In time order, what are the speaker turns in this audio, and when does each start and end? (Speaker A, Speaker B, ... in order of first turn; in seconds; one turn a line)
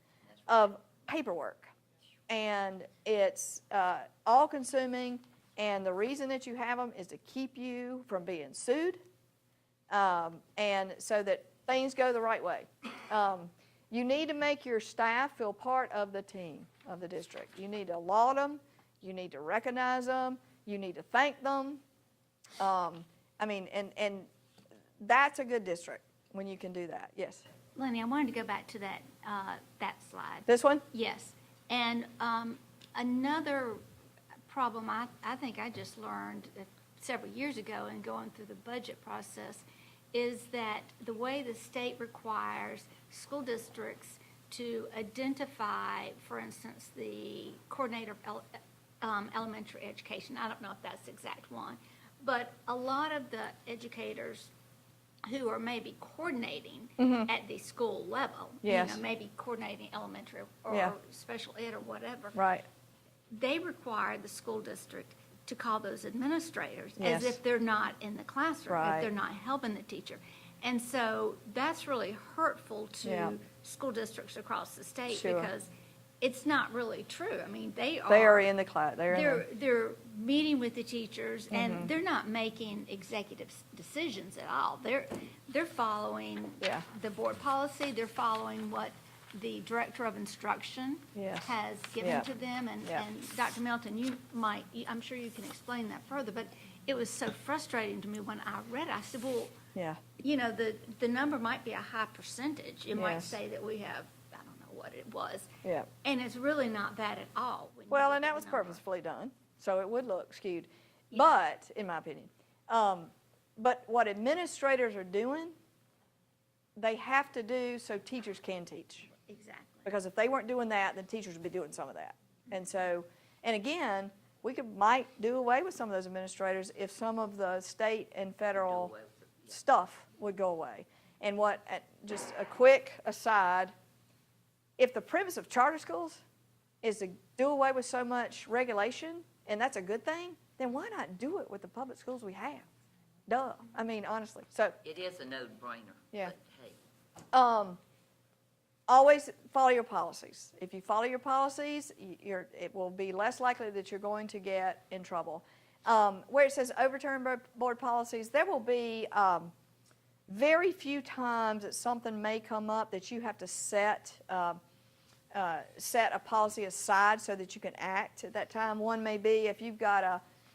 Speaker A: 0.2-0.7
Speaker B: 0.5-1.7
Speaker B: 2.3-9.0
Speaker B: 9.9-21.8
Speaker B: 22.6-24.3
Speaker B: 25.0-27.4
Speaker C: 27.8-33.8
Speaker B: 30.5-30.9
Speaker C: 34.5-54.5
Speaker C: 55.3-62.4
Speaker B: 57.0-57.3
Speaker B: 58.6-59.0
Speaker B: 60.7-61.0
Speaker B: 62.4-62.6
Speaker C: 63.3-75.7
Speaker B: 67.0-67.4
Speaker B: 68.7-69.1
Speaker B: 73.0-73.3
Speaker B: 75.1-75.5
Speaker C: 76.2-78.5
Speaker B: 78.1-79.5
Speaker C: 79.1-99.6
Speaker B: 81.5-81.9
Speaker B: 86.6-86.9
Speaker B: 91.2-91.5
Speaker B: 92.0-92.3
Speaker B: 99.8-100.0
Speaker C: 100.2-105.5
Speaker B: 102.9-103.4
Speaker C: 106.0-108.8
Speaker B: 107.9-115.5
Speaker C: 111.1-111.4
Speaker B: 116.8-119.1
Speaker C: 119.3-119.9
Speaker B: 119.8-128.9
Speaker A: 128.6-129.6
Speaker B: 129.5-133.7
Speaker B: 134.8-136.2
Speaker B: 136.8-142.7
Speaker B: 143.3-144.8
Speaker A: 144.8-146.8
Speaker B: 147.3-147.8
Speaker B: 148.9-159.5
Speaker B: 160.3-164.6
Speaker B: 165.3-170.2